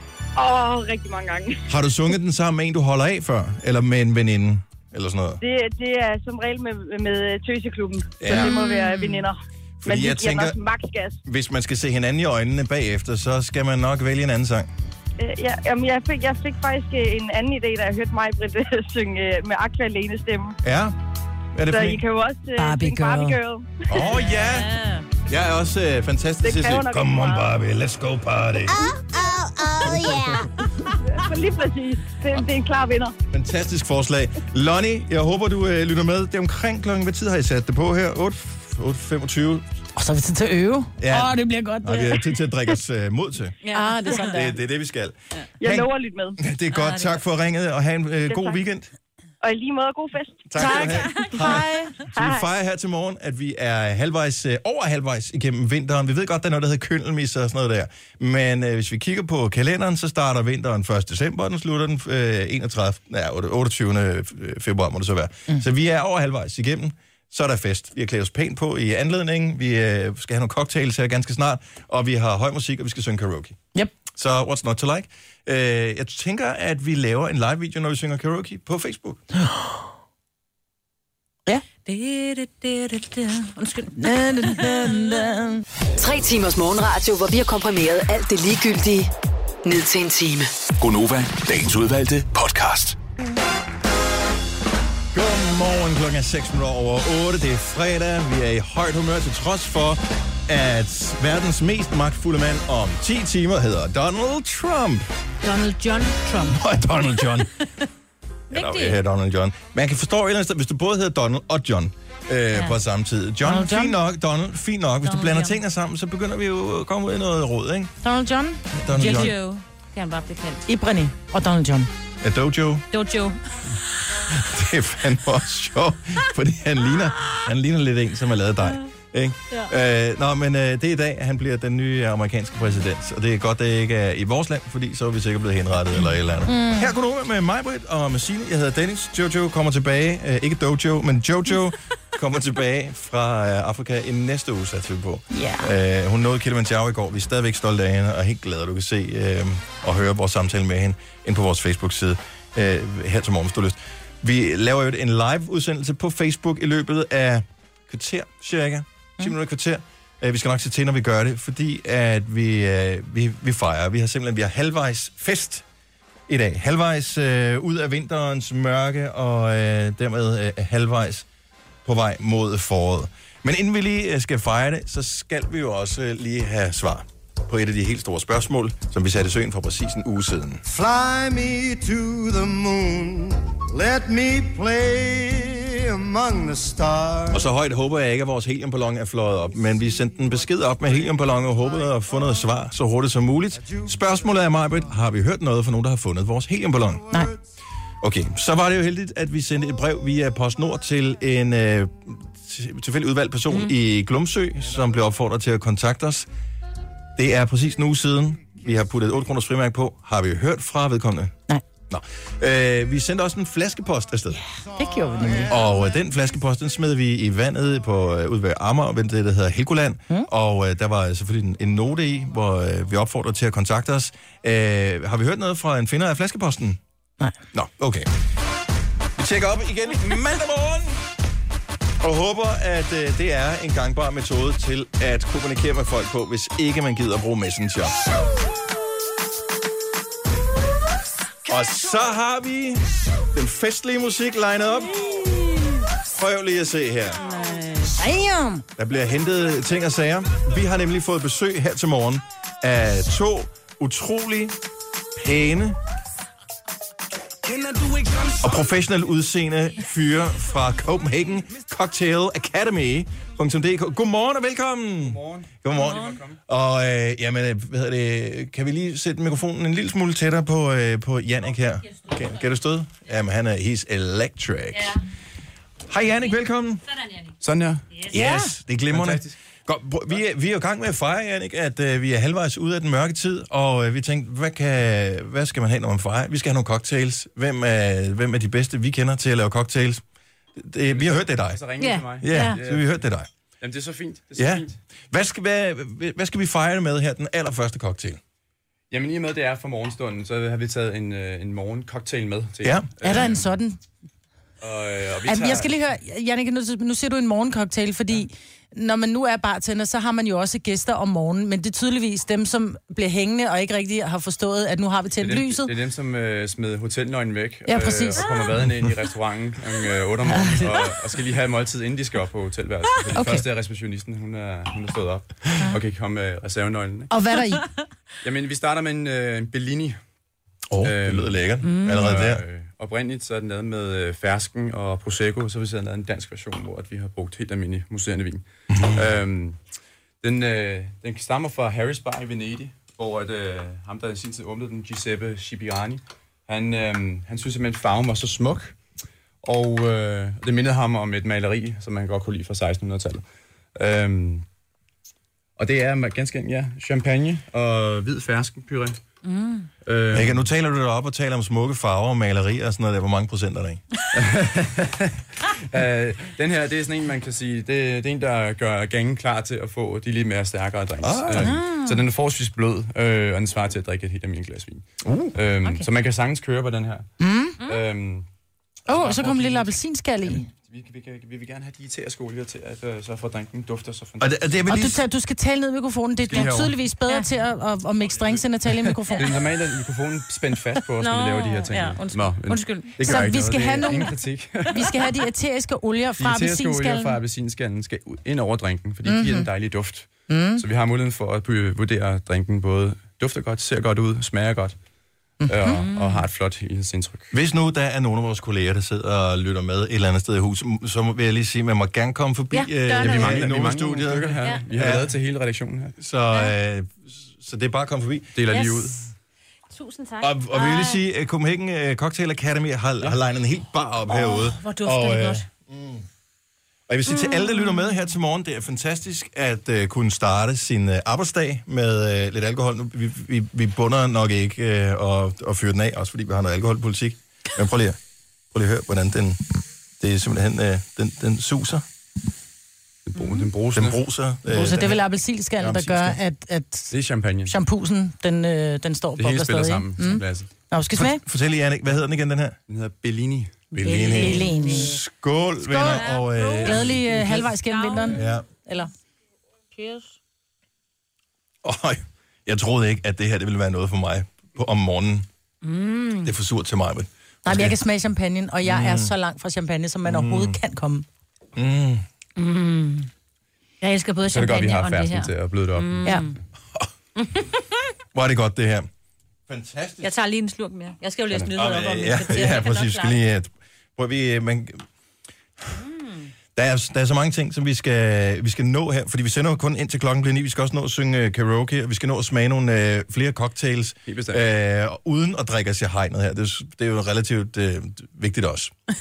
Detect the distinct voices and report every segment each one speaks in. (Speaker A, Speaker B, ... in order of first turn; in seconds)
Speaker A: 0.4-1.6, 5.4-11.2, 15.2-20.6, 21.7-23.8, 26.4-27.5, 31.1-33.1, 45.6-46.4, 48.3-48.6, 49.4-50.6
Speaker B: 1.7-5.4, 8.2-8.5, 9.8-10.6, 11.2-14.7, 20.6-20.9, 21.5-22.0, 23.9-24.7, 25.3-28.9, 33.3-39.6, 41.0-43.5, 44.3-48.9, 50.5-73.6, 74.1-79.2, 95.1-105.0, 106.4-107.5, 108.5-117.9, 118.8-119.3, 122.2-122.8, 124.3-165.6, 166.3-171.2, 171.8-180.6, 187.3-197.1, 198.0-206.3, 207.2-211.3, 211.9-214.4, 215.2-226.8, 227.5-228.1, 229.2-231.0, 232.0-238.0, 241.5-245.1, 246.1-247.2, 248.8-254.6, 255.2-255.8, 258.3-275.0, 275.9-276.8, 278.1-290.0, 290.6-293.3, 294.4-298.2, 302.6-303.3, 330.7-332.4, 338.7-339.0, 360.1-363.8, 371.0-371.6, 375.0-375.3, 384.2-385.0, 407.3-415.1, 416.0-418.3, 420.2-426.0, 426.9-438.0, 438.5-439.4, 440.0-441.8, 443.7-445.0, 445.6-446.2, 450.9-452.6, 453.8-457.4, 458.1-458.4, 461.6-465.2, 466.2-467.8, 468.6-469.1, 470.1-470.6, 471.6-472.0, 478.1-478.9, 479.5-480.1, 481.3-484.8, 486.5-498.7
Speaker C: 8.3-9.2, 24.1-25.1, 43.6-44.4, 46.7-47.2, 50.7-51.6, 81.8-85.0, 105.4-106.6, 108.5-109.0, 115.0-115.5, 119.0-120.6, 122.9-123.4, 247.2-248.0, 265.8-266.1, 291.8-292.6, 331.6-332.1, 359.2-359.7, 387.1-387.3, 391.0-393.3, 405.9-406.2, 412.5-413.4, 418.5-418.9, 419.7-421.0, 424.1-425.4, 427.1-427.8, 454.6-454.9, 455.8-458.2, 459.7-460.1, 465.6-466.3, 472.4-473.1, 473.8-476.4, 477.2-477.5, 480.0-483.2, 485.8-486.3
Speaker D: 22.6-23.4, 28.7-30.7, 39.9-42.3, 43.7-44.5, 50.5-51.9, 79.3-79.8, 84.0-85.6, 113.4-114.0, 118.0-119.3, 120.7-121.9, 136.5-136.9, 145.3-145.7, 214.7-215.6, 245.1-245.4, 247.9-248.6, 278.1-278.5, 303.0-303.8, 305.2-315.7, 317.7-318.4, 320.3-320.9, 323.1-323.4, 327.1-327.7, 371.4-372.0, 377.2-377.6, 378.9-380.4, 384.7-389.3, 393.0-394.2, 394.7-397.2, 399.0-399.5, 400.3-400.6, 405.4-405.8, 444.5-446.9, 447.5-451.2, 453.8-455.0, 455.6-458.9, 467.4-471.1
Speaker E: 86.0-89.1, 89.6-90.5
Speaker F: 90.8-93.0
Speaker G: 180.7-187.5
Speaker H: 265.0-266.4, 277.4-278.0, 278.9-279.4, 290.9-294.8, 298.9-303.5, 304.6-305.8, 315.1-327.1, 328.2-330.0, 330.8-339.6, 340.2-348.8, 349.4-353.2, 353.7-354.4, 355.6-359.0, 359.8-360.5, 364.1-377.1, 377.6-378.2, 378.9-384.7, 386.2-386.8, 388.1-394.8, 396.2-404.8, 405.5-407.3, 413.0-416.0, 418.3-419.1, 443.1-444.0, 446.9-447.6, 449.2-450.5, 452.7-454.6, 474.3-476.2, 494.1-494.4